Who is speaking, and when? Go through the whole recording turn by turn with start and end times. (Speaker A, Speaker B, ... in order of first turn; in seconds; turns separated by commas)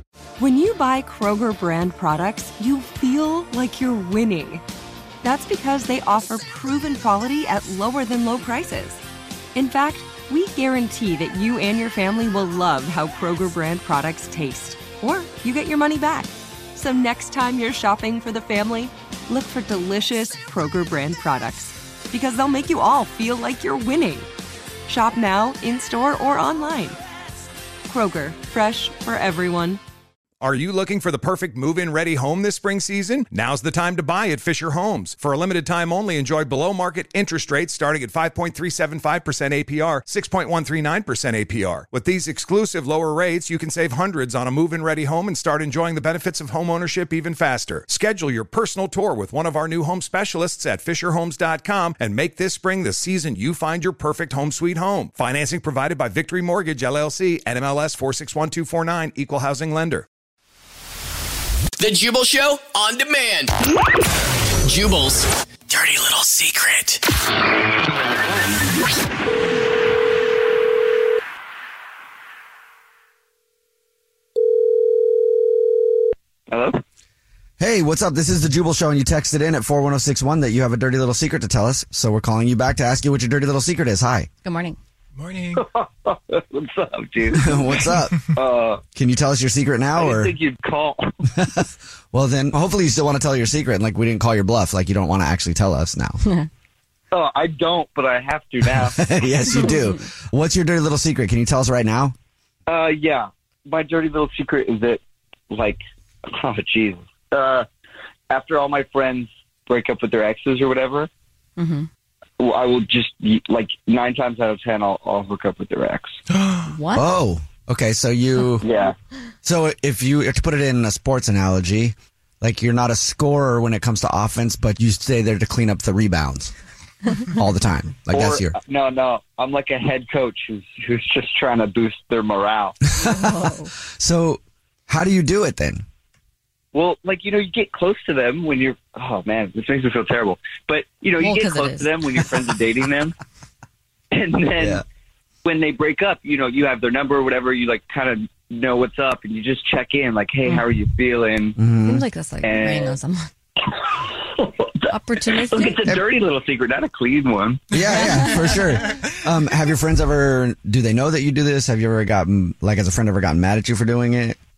Speaker A: 0.4-4.7, Speaker A: 5.2-9.0, Speaker A: 9.6-24.3, Speaker A: 24.9-27.0, Speaker A: 27.9-29.8, Speaker B: 30.4-60.0, Speaker C: 61.8-63.5, Speaker C: 64.6-67.0, Speaker D: 76.5-76.8, Speaker E: 77.6-84.3, Speaker F: 84.4-84.8, Speaker D: 85.6-88.8, Speaker E: 87.3-88.3, Speaker E: 89.0-90.3, Speaker D: 90.0-91.2, Speaker E: 91.4-96.2, Speaker D: 97.1-99.0, Speaker E: 98.7-102.1, Speaker D: 102.7-107.7, Speaker D: 108.3-111.1, Speaker F: 111.6-111.9, Speaker D: 112.4-116.2, Speaker F: 116.7-117.1, Speaker E: 117.0-118.7, Speaker D: 118.6-119.0, Speaker E: 119.4-126.5, Speaker E: 127.2-128.6, Speaker D: 128.1-132.8, Speaker E: 133.0-135.8, Speaker F: 133.1-133.7, Speaker D: 136.7-143.2, Speaker F: 141.2-141.9, Speaker D: 144.1-144.8, Speaker E: 144.6-144.8, Speaker D: 145.4-151.6, Speaker E: 151.6-152.1, Speaker F: 151.8-153.3, Speaker D: 152.4-152.9, Speaker F: 154.9-155.8, Speaker D: 155.3-157.8, Speaker E: 157.7-164.4, Speaker F: 158.2-158.6